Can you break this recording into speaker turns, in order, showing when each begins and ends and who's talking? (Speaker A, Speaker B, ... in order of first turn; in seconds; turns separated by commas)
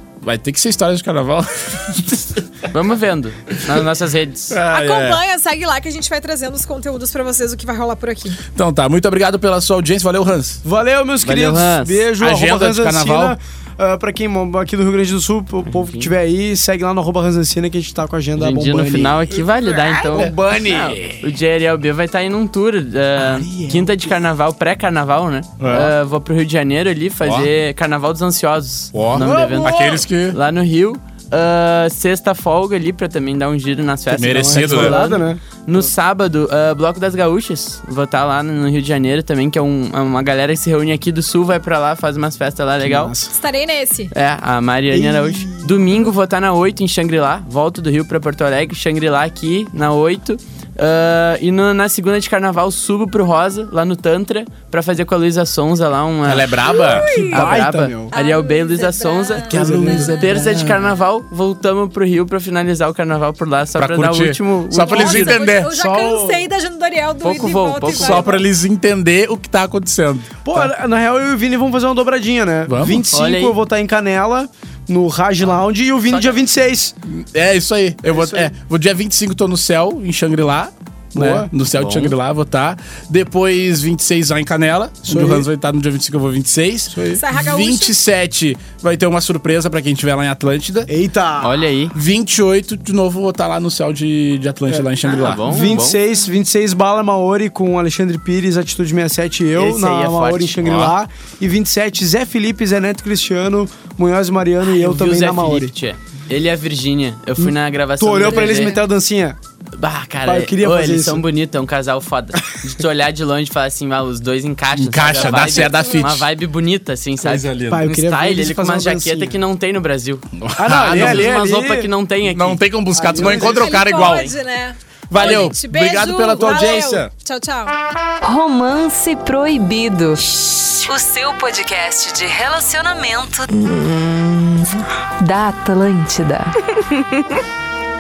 Speaker A: 0.2-2.4, Speaker B: 2.7-4.6, Speaker A: 4.5-5.2, Speaker C: 4.7-8.4, Speaker A: 8.5-10.6, Speaker D: 10.6-19.4, Speaker B: 11.2-12.1, Speaker A: 12.2-13.3, Speaker B: 15.7-16.1, Speaker B: 18.4-43.1, Speaker A: 19.6-21.2, Speaker D: 20.0-21.0, Speaker D: 23.5-23.9, Speaker A: 25.6-25.9, Speaker A: 27.2-27.5, Speaker A: 28.9-30.4, Speaker D: 29.1-30.1, Speaker A: 34.1-35.0, Speaker D: 34.1-35.9, Speaker D: 42.8-43.3, Speaker C: 43.3-44.1, Speaker B: 44.1-65.4, Speaker D: 44.9-45.9, Speaker A: 56.2-57.5, Speaker C: 56.8-57.4, Speaker D: 57.1-58.1, Speaker C: 58.1-60.2, Speaker D: 59.5-60.5, Speaker A: 59.5-60.8, Speaker A: 63.8-65.8, Speaker C: 64.9-68.4, Speaker D: 65.5-66.5, Speaker B: 67.2-68.3, Speaker A: 67.9-70.7, Speaker D: 70.5-77.0, Speaker A: 72.7-73.1, Speaker B: 73.0-73.6, Speaker A: 77.0-90.9, Speaker D: 78.1-78.5, Speaker D: 81.2-81.5, Speaker B: 81.7-82.2, Speaker D: 85.1-85.5, Speaker D: 86.9-87.2, Speaker C: 87.1-88.0, Speaker D: 90.9-91.6, Speaker B: 91.4-92.0, Speaker A: 91.9-95.5, Speaker D: 94.7-105.7, Speaker B: 95.1-96.0, Speaker B: 99.5-100.6, Speaker A: 100.6-100.9, Speaker B: 104.7-108.8, Speaker D: 107.4-109.4, Speaker C: 108.2-108.8, Speaker B: 109.8-120.3, Speaker D: 110.2-111.2, Speaker A: 114.7-116.3, Speaker A: 117.2-117.8, Speaker D: 117.7-119.4, Speaker A: 120.4-121.5, Speaker D: 120.6-121.9, Speaker B: 120.8-122.6, Speaker A: 122.2-124.3, Speaker D: 122.9-123.8, Speaker C: 123.2-127.7, Speaker A: 125.1-127.1, Speaker E: 128.2-137.4